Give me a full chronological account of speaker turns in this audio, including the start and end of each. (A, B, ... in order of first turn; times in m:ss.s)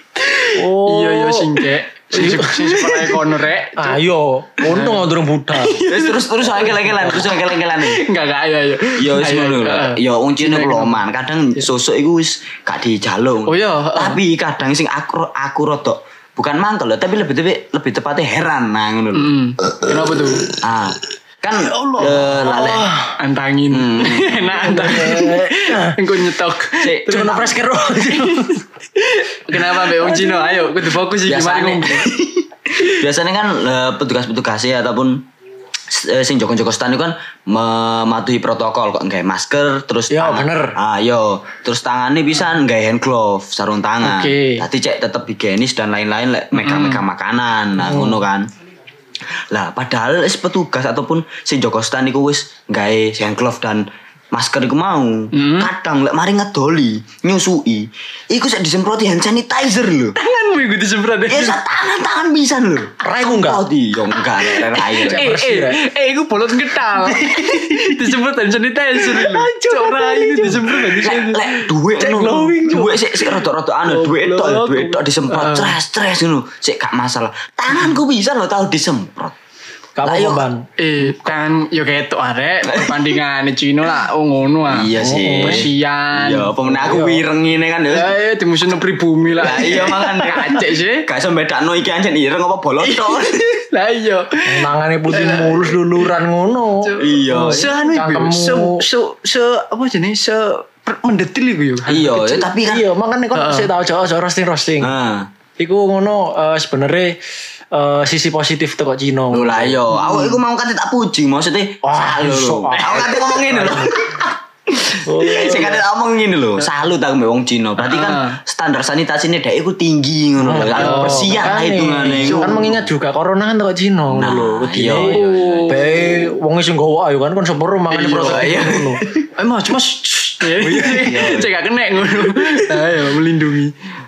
0:00.2-0:04.0 A
0:00.5-0:03.2 B
0:03.8-0:05.8 B
0:04.6-0:11.0 A
0:05.8-0:08.1 C
0:08.9-0:22.9 C
0:13.5-0:14.2 A
0:19.1-0:20.5 A
0:21.7-0:27.4 A
0:22.4-0:23.2 B
0:23.7-0:24.9 C
0:24.6-0:26.0 B
0:26.8-0:27.6 C
0:27.1-0:28.6 B
0:28.1-0:32.2 A
0:29.5-0:30.6 B
0:31.2-0:35.2 C
0:35.9-0:48.5 C
0:40.1-0:40.8 B
0:44.0-0:44.6 B
0:46.5-0:47.0 A
0:47.8-0:48.2 B
0:49.5-1:00.1 C
0:55.3-0:55.7 A
1:00.2-1:01.6 A
1:01.3-1:05.3 C
1:03.0-1:03.6 B
1:04.2-1:13.3 A
1:05.1-1:05.8 B
1:06.9-1:08.1 B
1:09.2-1:10.9 B
1:10.4-1:19.4 C
1:12.0-1:13.0 B
1:13.9-1:15.8 A
1:20.0-1:20.7 B
1:20.0-1:20.4 C
1:20.8-1:26.5 A
1:22.7-1:23.0 C
1:24.7-1:28.1 C
1:25.0-1:25.6 B
1:26.6-1:27.2 B
1:27.9-1:31.1 A
1:29.3-1:33.5 C
1:32.8-1:36.0 A
1:34.5-1:38.8 B
1:36.8-1:42.2 A
1:37.0-1:37.7 C
1:41.9-1:42.9 C
1:42.1-1:44.9 B
1:43.3-1:43.7 A
1:44.8-1:45.3 C
1:45.6-1:47.2 B
1:47.7-1:50.0 B
1:49.3-2:02.8 C
1:50.0-1:50.4 A
1:51.8-1:53.9 B
1:52.7-1:53.1 A
1:55.0-1:55.8 B
1:57.8-1:58.4 A
2:00.4-2:09.0 B
2:00.7-2:01.5 A
2:02.2-2:02.7 A
2:04.1-2:06.1 C
2:04.9-2:05.9 A
2:07.9-2:08.7 A
2:08.1-2:09.3 C
2:09.4-2:13.7 A
2:10.6-2:11.3 B
2:10.8-2:11.5 C